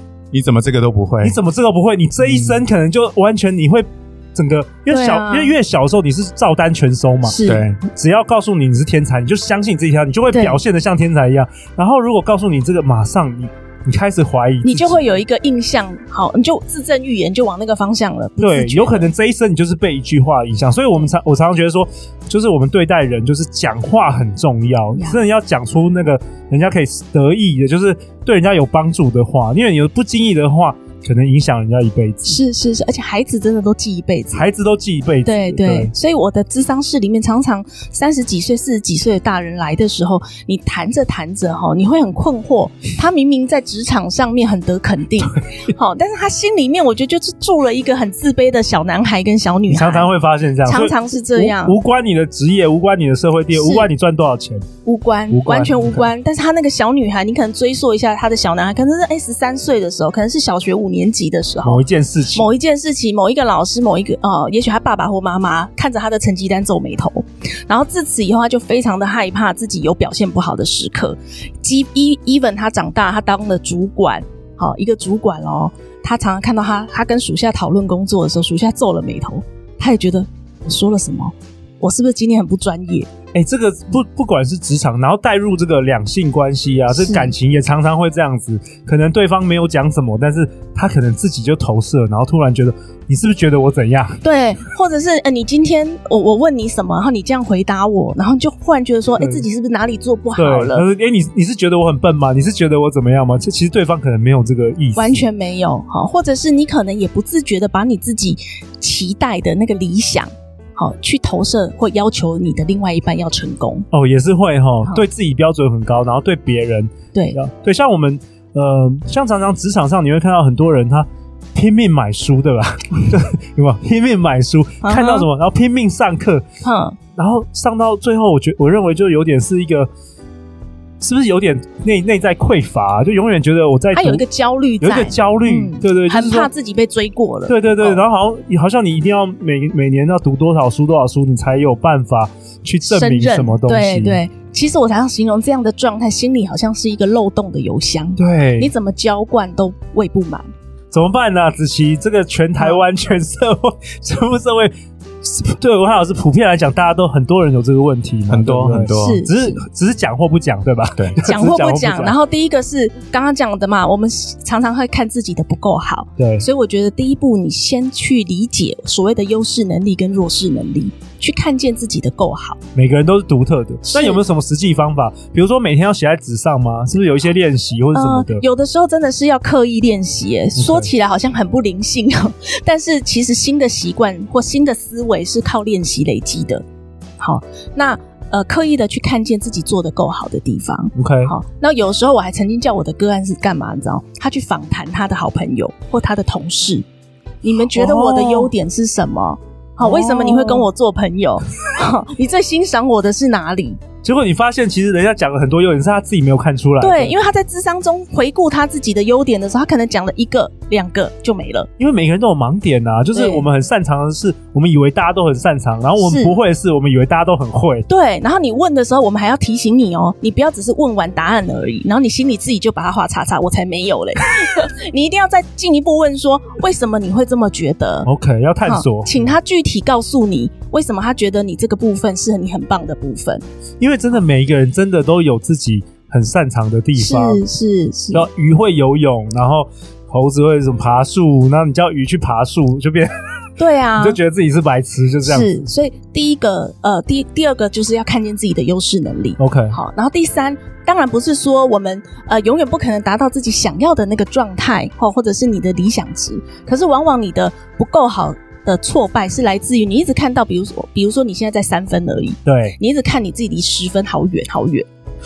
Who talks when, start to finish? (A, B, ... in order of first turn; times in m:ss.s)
0:00.3-0:01.4 A
0:01.2-0:15.0 B
0:02.2-0:02.6 A
0:04.9-0:05.6 C
0:07.2-0:07.6 C
0:07.4-0:07.8 A
0:10.3-0:10.6 C
0:14.6-0:19.1 C
0:18.4-0:32.4 B
0:25.0-0:25.2 C
0:32.3-0:34.5 C
0:34.3-0:35.9 B
0:35.2-0:50.1 C
0:45.2-0:45.7 B
0:49.7-0:54.7 B
0:50.6-0:51.8 C
0:53.6-0:53.9 C
0:54.8-1:23.1 C
0:55.3-0:56.1 B
1:01.6-1:02.5 B
1:23.3-1:34.2 B
1:26.9-1:27.3 C
1:34.2-1:40.8 C
1:39.2-1:39.4 B
1:40.4-1:45.2 B
1:45.0-1:53.9 C
1:53.9-2:06.4 B
2:04.8-2:05.3 C
2:06.6-2:07.0 C
2:07.2-2:09.9 B
2:11.0-2:14.2 B
2:13.9-2:18.0 C
2:14.8-2:16.5 B
2:17.5-2:24.2 B
2:22.9-2:30.5 C
2:28.2-2:28.7 B
2:30.9-2:42.2 B
2:38.3-2:39.2 A
2:38.9-2:39.6 C
2:41.2-2:52.6 C
2:46.2-2:46.5 B
2:52.8-2:58.4 B
2:53.9-2:54.2 C
2:57.9-3:06.6 C
3:00.6-3:00.9 B
3:07.2-3:16.8 C
3:11.0-3:11.3 B
3:17.4-3:23.8 C
3:17.7-3:18.5 B
3:19.8-3:20.7 B
3:24.0-3:27.2 B
3:26.8-3:31.7 C
3:31.8-3:37.9 B
3:33.2-3:33.4 C
3:36.0-3:36.3 C
3:37.9-3:48.1 C
3:48.1-3:49.3 B
3:48.7-3:53.4 C
3:53.8-3:57.4 B
3:57.0-3:58.3 C
3:58.1-4:03.1 B
4:03.6-4:04.2 C
4:04.0-4:05.5 B
4:05.2-4:24.9 C
4:09.4-4:09.8 B
4:22.4-4:22.8 B